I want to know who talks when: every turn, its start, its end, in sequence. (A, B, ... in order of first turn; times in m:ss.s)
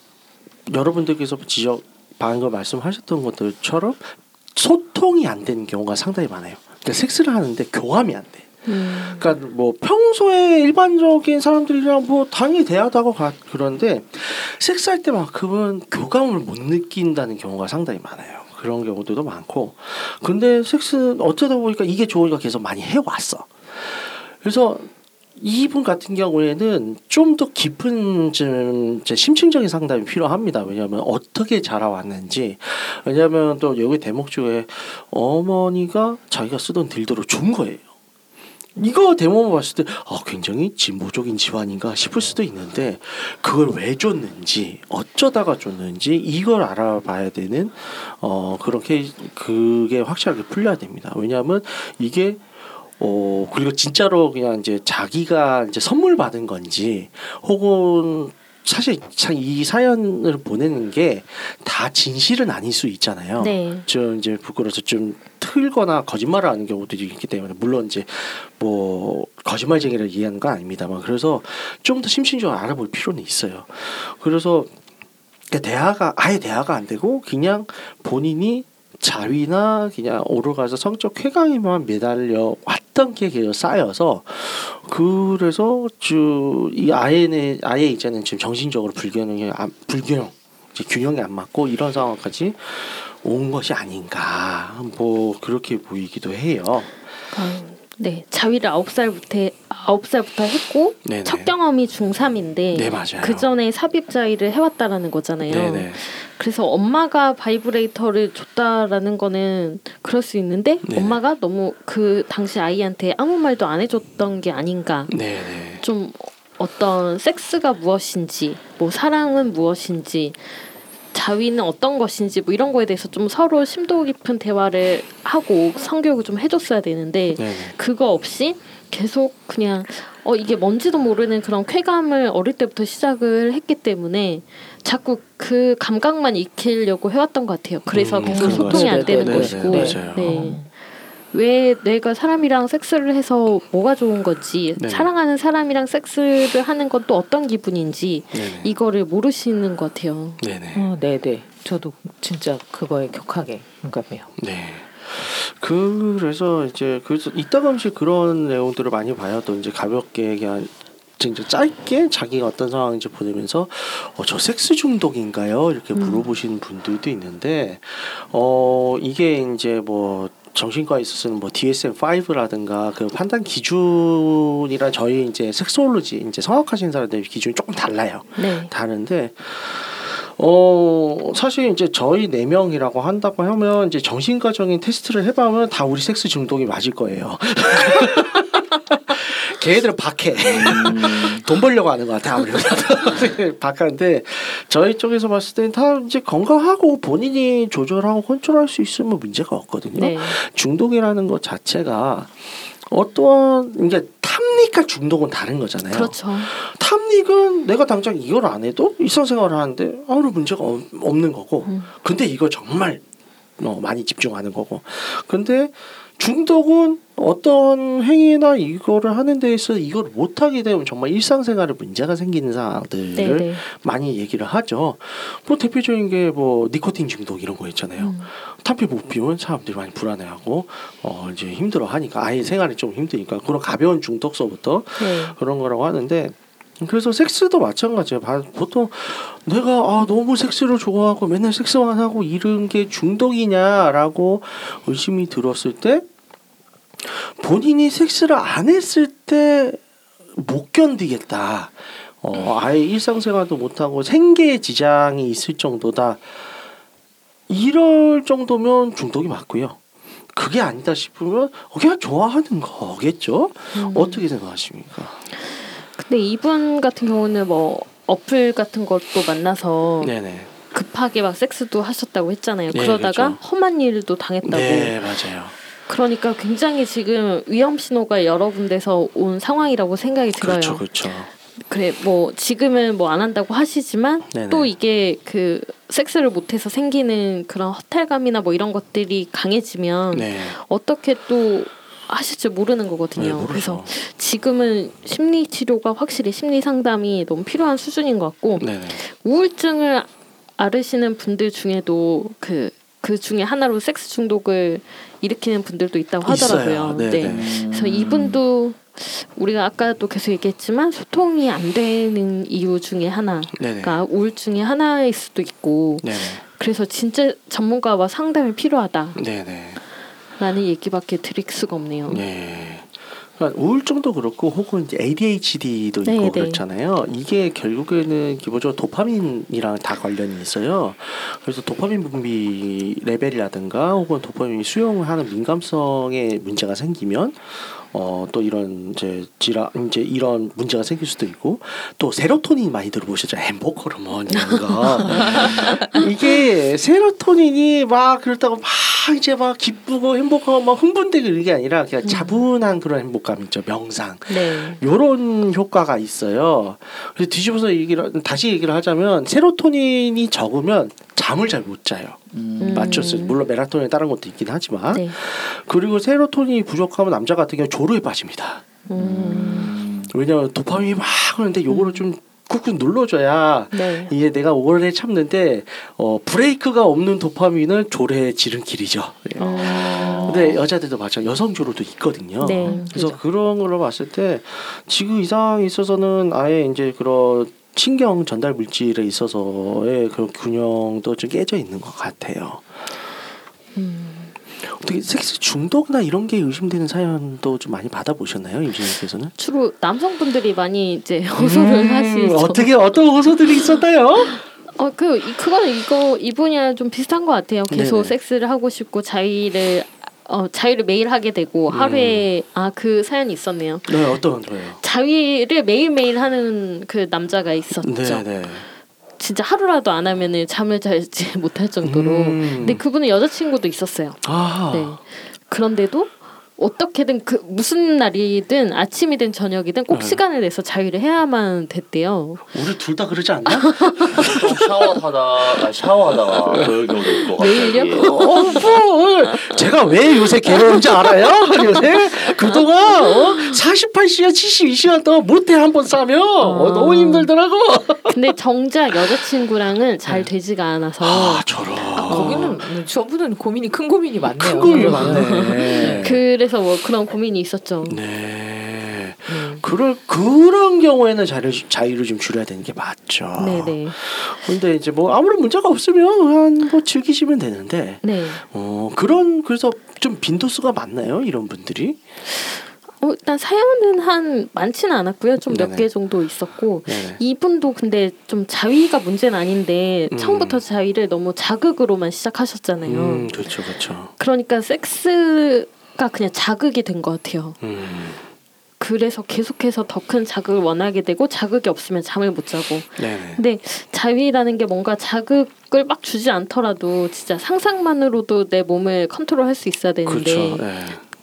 0:00.7-0:08.5 A
0:08.6-0:09.3 B
0:09.0-0:37.8 A
0:38.8-0:52.4 A
0:53.0-1:14.7 A
1:03.4-1:03.8 B
1:15.5-1:36.9 A
1:37.3-1:55.2 B
1:41.0-1:41.5 A
1:42.7-1:43.4 A
1:45.5-1:46.0 A
1:50.8-1:51.2 A
1:55.1-1:55.8 A
1:55.8-2:00.4 B
2:01.1-2:20.7 B
2:07.4-2:07.7 A
2:17.9-2:20.4 A
2:18.2-2:20.7 C
2:21.3-2:30.4 B
2:24.8-2:25.1 A
2:28.3-2:28.7 A
2:30.4-2:30.9 A
2:30.7-2:34.3 C
2:34.4-3:33.0 A
2:45.9-2:46.3 B
2:58.4-2:58.7 B
3:10.4-3:11.4 D
3:20.0-3:20.4 B
3:25.9-3:26.5 B
3:31.6-3:31.9 B
3:33.6-4:06.0 A
3:43.1-3:43.6 B
3:48.0-3:48.3 B
3:55.0-3:55.4 B
4:07.0-4:09.8 A
4:10.3-4:16.2 A
4:17.5-4:19.8 A
4:20.3-4:25.2 A
4:23.7-4:24.2 B
4:25.9-4:30.1 B
4:30.0-4:30.5 A
4:30.7-4:35.0 B
4:32.7-4:33.4 A
4:34.4-4:35.5 A
4:35.9-4:40.8 B
4:40.4-4:41.3 A
4:41.7-5:19.2 B
4:44.3-4:44.7 A
4:50.1-4:50.6 A
4:53.2-4:53.9 A
4:58.6-4:59.0 A
5:06.2-5:07.5 A
5:07.2-5:08.4 D
5:13.5-5:14.0 A
5:16.0-5:16.4 A
5:19.2-5:19.8 A
5:20.4-5:22.2 B
5:22.1-6:02.2 A
5:26.0-5:26.6 B
5:44.4-5:46.0 B
5:45.2-5:45.7 D
5:52.0-5:52.4 B
5:54.3-5:54.8 B
6:02.3-6:03.1 D
6:02.6-6:03.4 B
6:02.7-6:08.6 A
6:04.9-6:05.2 B
6:08.9-6:09.7 B
6:08.9-6:10.1 D
6:10.1-6:32.6 A
6:11.7-6:12.0 B
6:13.7-6:14.1 B
6:19.4-6:20.4 B
6:19.4-6:20.6 D
6:22.4-6:22.9 B
6:22.6-6:23.2 C
6:33.7-6:34.3 B
6:34.6-6:39.3 A
6:39.3-6:42.7 B
6:41.4-6:44.4 A
6:44.2-6:54.0 B
6:47.7-6:48.1 A
6:51.7-6:52.2 A
6:53.8-6:54.8 A
6:54.8-6:58.3 B
6:57.8-6:58.6 A
6:59.2-7:12.5 B
7:01.8-7:02.8 A
7:04.2-7:05.0 A
7:09.9-7:10.2 A
7:12.5-7:14.6 A
7:13.6-7:14.3 B
7:14.2-7:18.3 D
7:16.5-7:16.9 A
7:17.4-7:18.7 B
7:18.0-7:28.2 A
7:19.3-7:19.6 B
7:20.5-7:23.6 B
7:26.4-7:27.3 B
7:28.1-7:32.5 B
7:31.0-7:32.7 A
7:32.0-7:36.0 C
7:34.2-7:36.2 A
7:34.6-7:38.0 B
7:37.9-7:52.0 A
7:39.3-7:39.6 B
7:43.4-7:44.0 B
7:48.0-7:48.4 B
7:52.4-8:07.6 B
7:55.5-7:55.9 A
7:56.9-7:57.2 A
8:00.1-8:00.6 A
8:02.8-8:04.1 A
8:07.6-8:08.2 A
8:08.8-8:20.7 B
8:13.0-8:13.4 A
8:20.0-8:21.0 A